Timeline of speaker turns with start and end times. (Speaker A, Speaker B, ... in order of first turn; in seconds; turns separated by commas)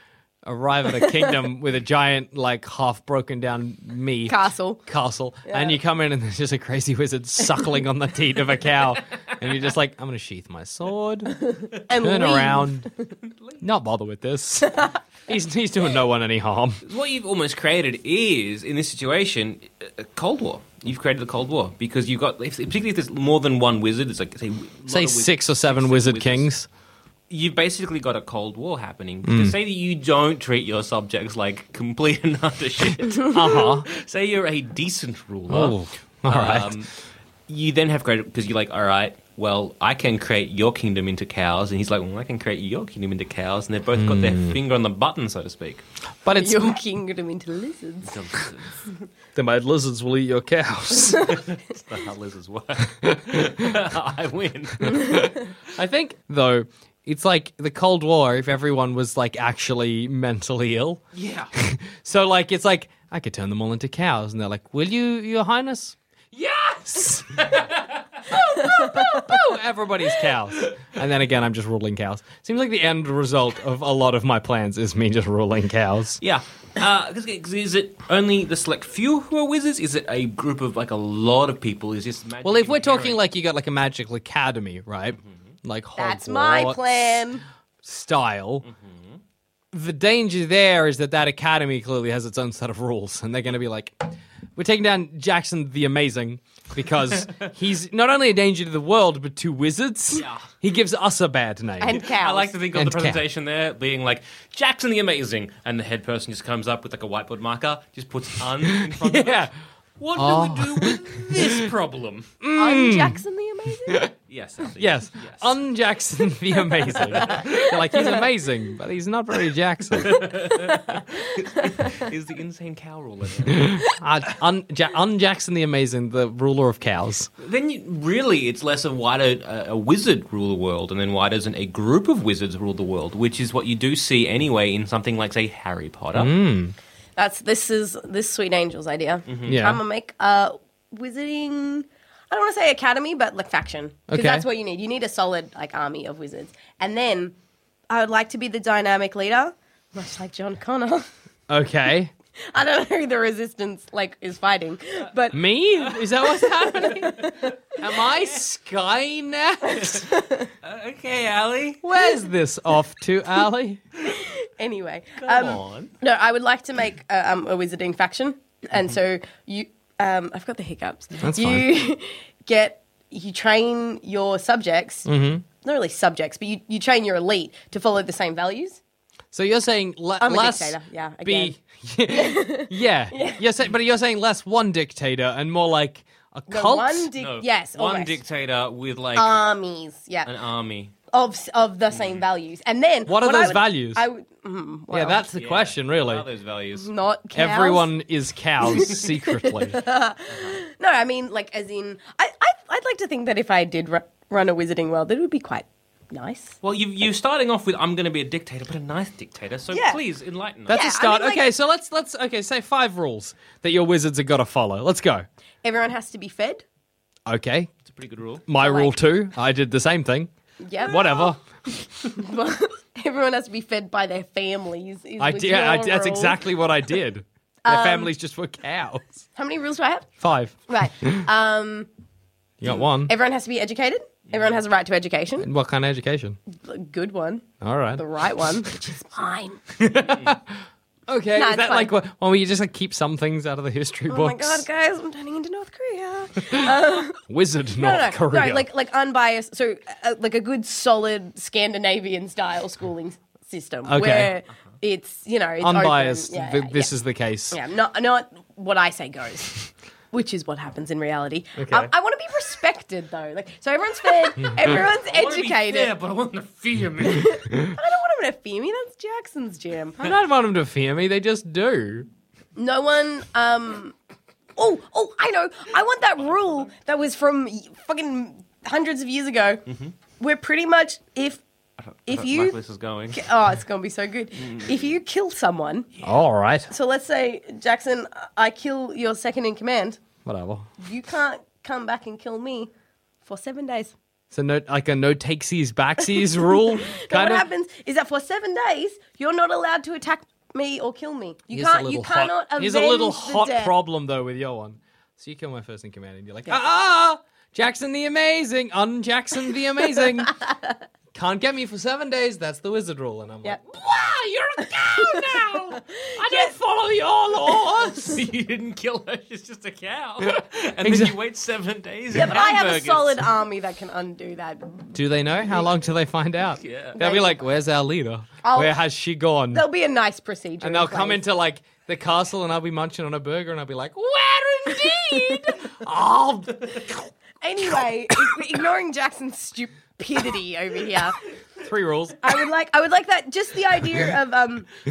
Speaker A: 0.4-12.9, Speaker B: 4.3-4.8, Speaker B: 5.5-5.8, Speaker B: 11.5-12.9, Speaker C: 13.3-13.6, Speaker A: 13.6-16.8, Speaker C: 16.8-26.5, Speaker A: 24.9-26.7, Speaker C: 27.3-36.9, Speaker A: 29.2-29.6, Speaker A: 33.2-33.9, Speaker A: 35.5-36.7, Speaker C: 37.5-45.8, Speaker A: 44.0-44.6, Speaker A: 46.2-46.8, Speaker B: 46.4-48.2, Speaker C: 48.0-48.9, Speaker A: 49.3-51.3, Speaker C: 51.2-55.2, Speaker A: 53.0-53.7, Speaker A: 54.8-61.0, Speaker C: 61.1-61.5, Speaker A: 61.5-66.3, Speaker C: 66.3-68.3, Speaker A: 66.8-67.6, Speaker A: 68.3-76.2, Speaker C: 76.2-83.2, Speaker A: 82.4-87.3, Speaker B: 86.0-87.4, Speaker A: 87.8-88.7, Speaker C: 88.7-89.2, Speaker A: 89.7-102.0, Speaker C: 100.1-100.5, Speaker B: 101.8-102.5, Speaker C: 101.9-109.5, Speaker A: 102.7-103.2, Speaker A: 108.8-109.5, Speaker C: 110.0-112.3, Speaker A: 110.2-111.6, Speaker A: 112.4-113.2, Speaker B: 112.5-114.1, Speaker A: 113.9-114.1, Speaker C: 114.3-115.5, Speaker A: 114.8-120.4, Speaker C: 120.0-123.7, Speaker A: 123.5-127.3, Speaker C: 127.4-136.3, Speaker A: 136.1-136.7, Speaker B: 137.2-147.3, Speaker C: 139.3-139.6, Speaker A: 139.4-139.8, Speaker A: 144.1-144.4, Speaker B: 147.9-151.1, Speaker A: 151.5-152.1, Speaker B: 152.4-155.4, Speaker A: 155.3-160.1, Speaker B: 156.3-157.5, Speaker C: 156.9-157.5, Speaker B: 159.8-160.5, Speaker C: 160.6-161.8, Speaker A: 161.8-163.8, Speaker B: 164.0-175.1, Speaker C: 165.2-165.9, Speaker A: 171.2-171.8, Speaker A: 175.1-175.4, Speaker B: 175.6-178.8, Speaker A: 179.3-187.1, Speaker B: 180.2-181.5, Speaker B: 182.1-183.4, Speaker B: 186.5-188.2, Speaker C: 187.2-189.4, Speaker B: 189.1-190.3, Speaker C: 190.2-190.9, Speaker B: 191.1-195.2, Speaker C: 191.9-192.2, Speaker A: 193.1-194.0, Speaker A: 194.9-196.2, Speaker C: 195.3-196.9, Speaker B: 196.8-197.9, Speaker A: 197.3-199.8, Speaker B: 198.6-206.6, Speaker C: 206.6-210.7, Speaker B: 209.7-210.0, Speaker A: 210.7-215.2, Speaker B: 210.7-211.5, Speaker B: 215.6-216.6, Speaker A: 217.2-217.7, Speaker C: 217.9-218.4, Speaker A: 218.4-220.3, Speaker B: 218.6-218.9, Speaker B: 220.6-221.3, Speaker A: 220.8-221.4, Speaker B: 222.1-226.4, Speaker A: 225.2-229.2, Speaker B: 227.6-228.1, Speaker B: 229.3-230.1, Speaker A: 230.2-231.2, Speaker B: 230.7-231.9, Speaker A: 232.6-233.1, Speaker B: 232.9-235.5, Speaker C: 234.3-234.6, Speaker A: 235.4-236.4, Speaker B: 236.5-237.4, Speaker A: 237.6-238.0, Speaker B: 238.0-239.6, Speaker A: 239.8-244.6, Speaker B: 241.3-241.9, Speaker B: 244.1-247.2, Speaker A: 246.5-248.7, Speaker B: 247.8-256.9, Speaker A: 253.9-254.3, Speaker A: 255.6-257.6, Speaker B: 257.5-265.9, Speaker A: 261.6-261.9, Speaker C: 264.6-267.4, Speaker B: 267.0-270.0, Speaker A: 270.0-272.1, Speaker B: 272.6-273.9, Speaker B: 274.6-279.6, Speaker C: 279.7-279.9, Speaker B: 280.2-281.4, Speaker C: 281.8-283.2, Speaker B: 282.1-282.6, Speaker B: 283.1-285.9, Speaker A: 286.0-286.7, Speaker B: 286.7-290.0, Speaker A: 290.2-290.7, Speaker B: 290.8-292.7, Speaker B: 293.2-293.9, Speaker A: 294.3-297.4, Speaker B: 296.2-303.7, Speaker A: 301.5-310.4, Speaker A: 311.1-318.1, Speaker B: 315.9-316.5, Speaker C: 317.5-323.3, Speaker A: 320.8-321.1, Speaker B: 322.1-324.9, Speaker A: 324.9-329.6, Speaker C: 326.6-327.0, Speaker B: 327.0-327.3, Speaker B: 328.4-328.8, Speaker B: 329.5-331.2, Speaker A: 330.6-336.9, Speaker B: 337.4-341.2, Speaker A: 341.6-342.2, Speaker B: 342.2-344.7